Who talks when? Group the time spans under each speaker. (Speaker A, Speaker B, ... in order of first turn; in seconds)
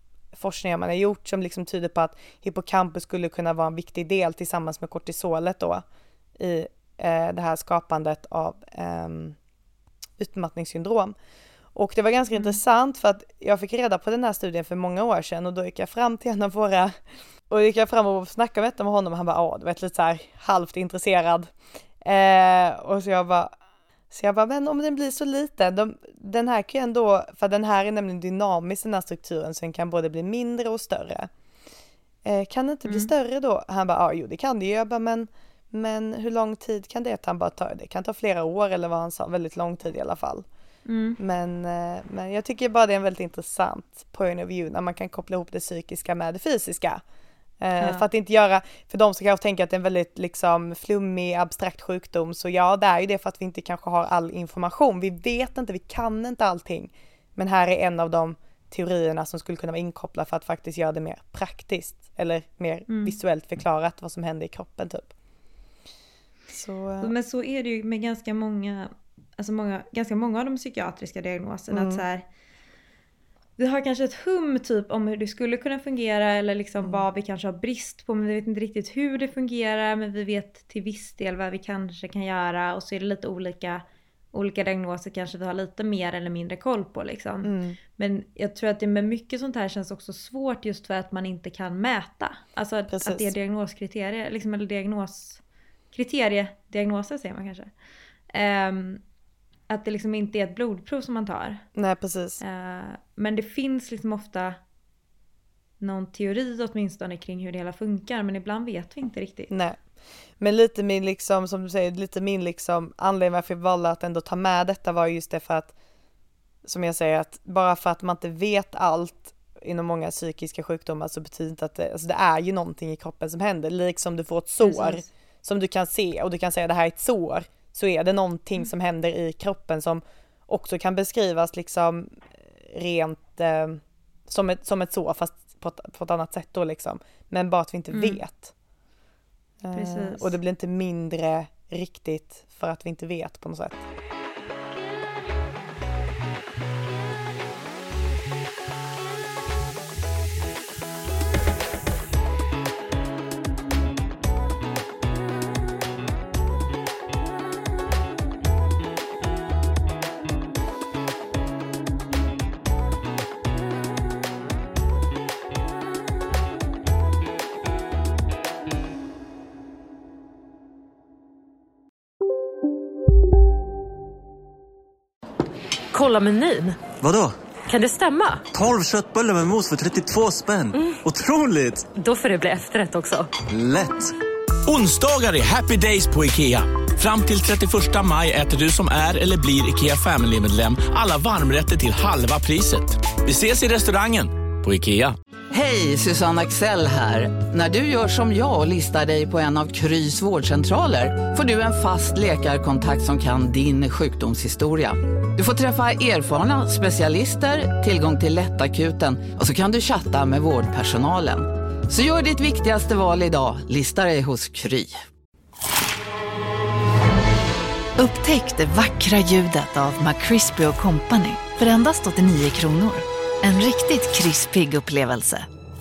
Speaker A: 0.3-5.8, 6.4-9.4, 10.2-11.2, 11.8-21.5, 22.0-23.6, 24.1-31.3, 32.2-40.5, 41.2-47.0, 47.6-65.1, 66.5-67.1, 71.7-72.0, 87.4-87.8, 92.9-93.3, 101.8-102.4, 109.5-109.8, 110.4-115.7, 116.7-138.5, 139.6-143.8
Speaker B: 40.9-41.2, 47.8-48.0, 62.9-63.2, 67.0-72.3, 73.6-95.4, 95.9-97.7, 98.3-99.0, 99.7-101.7, 102.4-104.6, 105.8-109.5, 124.6-125.1, 137.9-138.2, 139.7-140.3
Speaker C: 175.9-176.9, 177.7-178.4, 180.7-181.0, 181.9-183.3
Speaker D: 177.0-177.3, 178.5-181.9, 183.5-184.1
Speaker E: 184.7-195.2
Speaker F: 195.5-214.9
Speaker G: 218.0-225.5